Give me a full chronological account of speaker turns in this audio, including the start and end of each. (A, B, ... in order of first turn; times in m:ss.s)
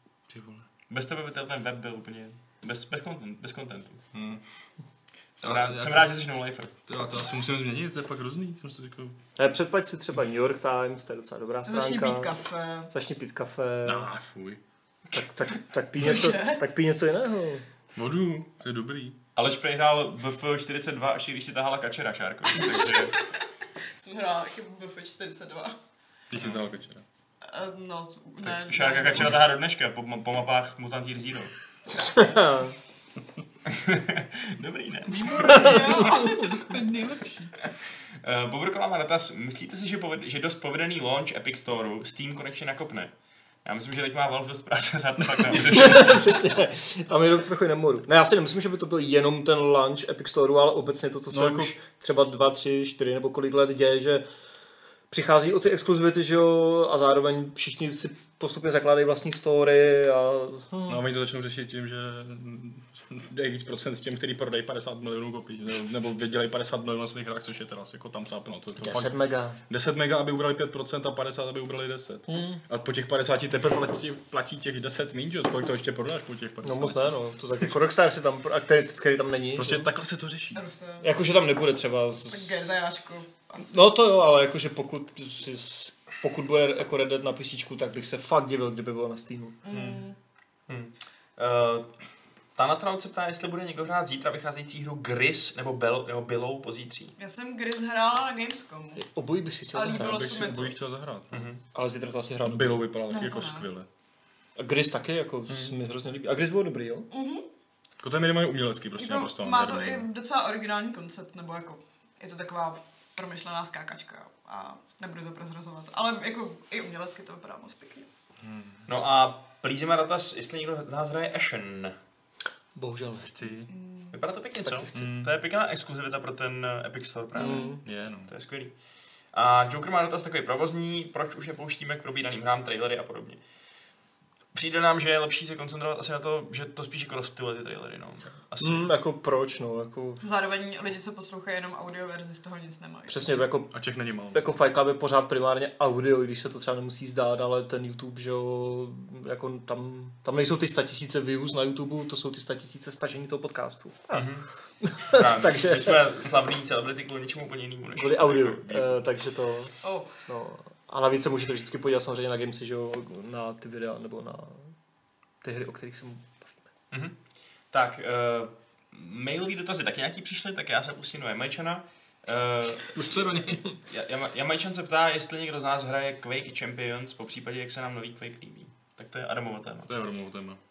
0:00.3-0:00.7 A
0:00.9-0:04.0 B
0:04.1-0:04.4 A
0:05.4-0:06.1 A
0:05.4-0:06.7 B
0:06.9-0:09.2 A
0:09.4-0:12.3 C
0:11.6-0:12.9 D
0:12.9-0:14.1 C
0:13.8-0:14.6 A
0:15.1-0:17.6 C
0:15.9-0:16.6 D
0:17.9-0:19.2 A
0:19.4-0:23.2 B
0:22.5-0:25.8 D
0:26.3-0:27.0 A
0:26.3-0:26.7 B
0:27.4-0:29.4 D
0:28.4-0:31.5 B
0:32.0-0:32.8 C
0:33.6-0:35.7 B
0:35.1-0:37.5 D
0:35.3-0:36.1 A
0:35.4-0:36.5 C
0:38.2-0:43.1 B
0:43.6-0:46.4 B
0:45.6-0:54.2 C
0:51.3-0:51.7 A
0:55.1-1:01.0 C
1:00.9-1:09.2 A
1:08.8-1:09.6 C
1:09.7-1:17.1 A
1:12.3-1:12.6 C
1:16.6-1:19.9 C
1:19.6-1:20.6 A
1:20.5-1:21.1 D
1:21.0-1:22.7 C
1:22.3-1:23.7 D
1:23.6-1:29.6 C
1:29.6-1:30.2 D
1:29.7-1:30.0 A
1:30.7-1:31.9 B
1:32.6-1:37.1 B
1:37.2-1:39.0 D
1:39.0-1:40.5 C
1:39.7-1:40.7 D
1:39.9-1:41.4 A
1:41.3-1:41.6 B
1:41.7-1:42.8 C
1:42.4-1:43.9 A
1:43.1-1:43.7 D
1:44.6-1:47.1 C
1:47.1-1:47.4 D
1:48.0-1:50.1 A
1:49.0-1:58.1 D
1:58.4-1:58.8 A
1:58.8-2:02.0 B
2:02.7-2:03.3 C
2:03.2-2:03.7 A
2:03.7-2:04.1 D
2:04.1-2:08.7 B
2:04.6-2:05.1 C
2:04.9-2:05.3 A
2:07.3-2:07.8 C
2:07.4-2:07.7 D
2:07.8-2:08.3 A
2:09.3-2:13.4 B
2:14.5-2:18.9 B
2:18.6-2:20.2 C
2:20.2-2:23.5 D
2:23.1-2:23.7 C
2:23.7-2:24.5 A
2:24.3-2:34.2 C
2:34.1-2:34.5 B
2:34.8-2:36.0 C
2:35.1-2:39.0 B
2:37.9-2:39.7 C
2:39.8-2:40.1 D
2:40.2-2:44.7 C
2:45.4-2:46.6 C
2:47.7-2:53.0 B
2:52.9-2:53.6 A
2:53.8-2:59.9 B
2:59.9-3:00.6 A